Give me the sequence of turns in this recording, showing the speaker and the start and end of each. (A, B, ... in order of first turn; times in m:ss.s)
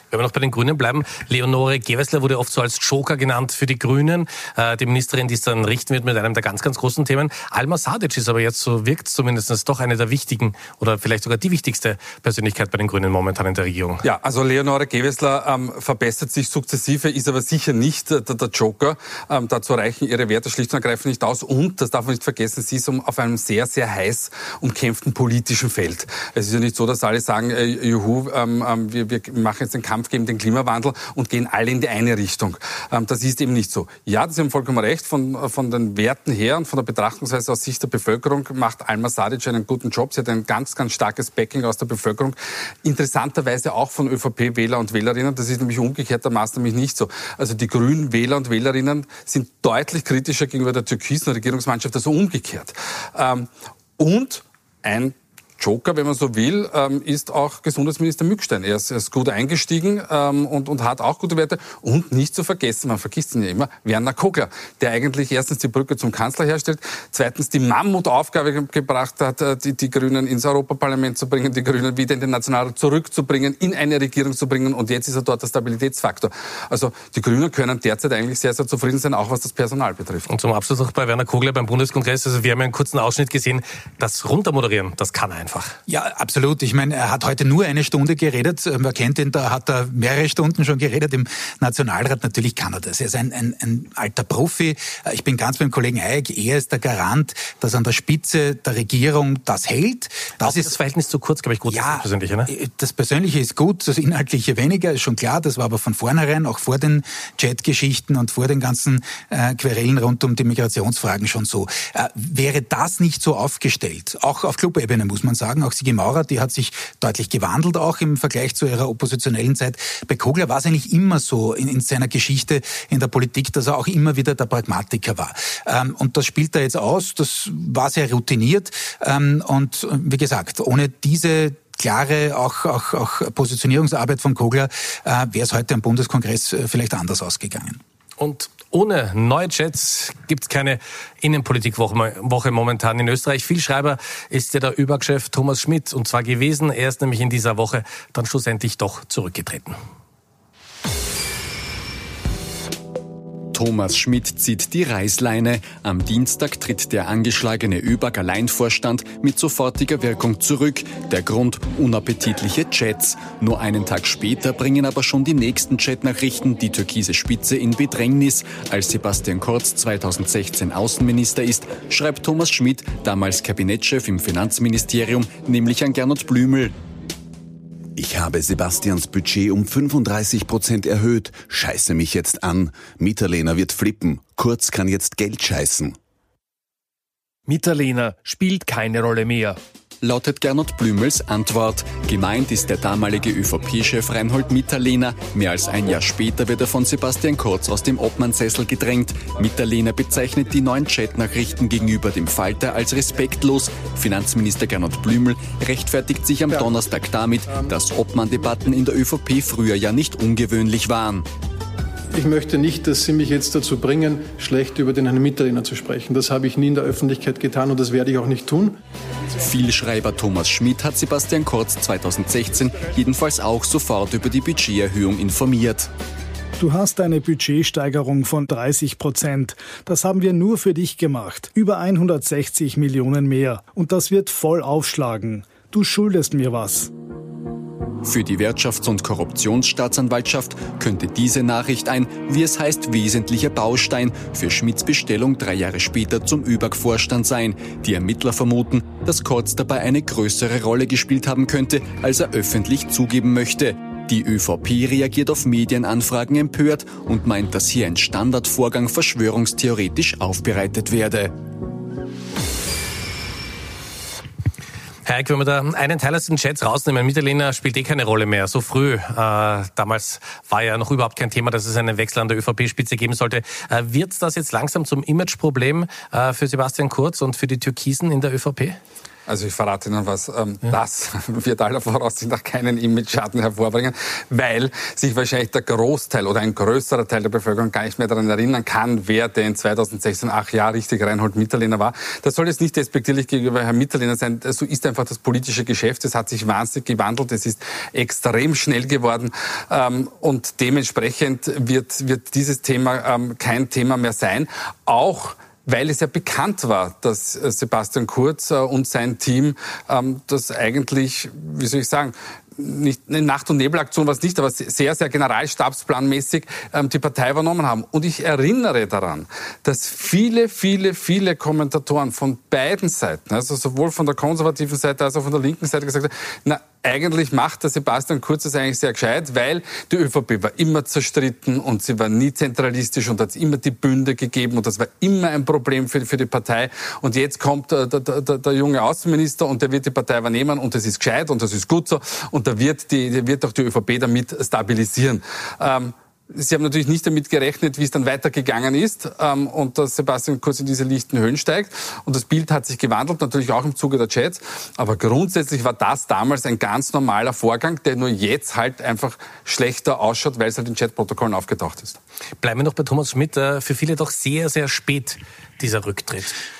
0:00.1-0:14.0 A
0:14.0-1:20.3 B
1:20.3-1:25.7 A
1:25.9-1:40.7 C
1:40.4-1:42.5 A
1:41.7-2:17.8 C
2:18.2-2:29.8 A
2:33.5-2:56.7 D
2:58.0-3:06.0 E
3:07.5-3:09.6 F
3:10.0-3:31.2 D
3:32.1-3:38.8 G
3:39.4-3:45.9 D
3:46.6-3:56.9 H
3:58.0-4:21.3 D
4:25.0-4:38.8 A
4:39.3-6:02.0 B
6:02.4-6:06.4 A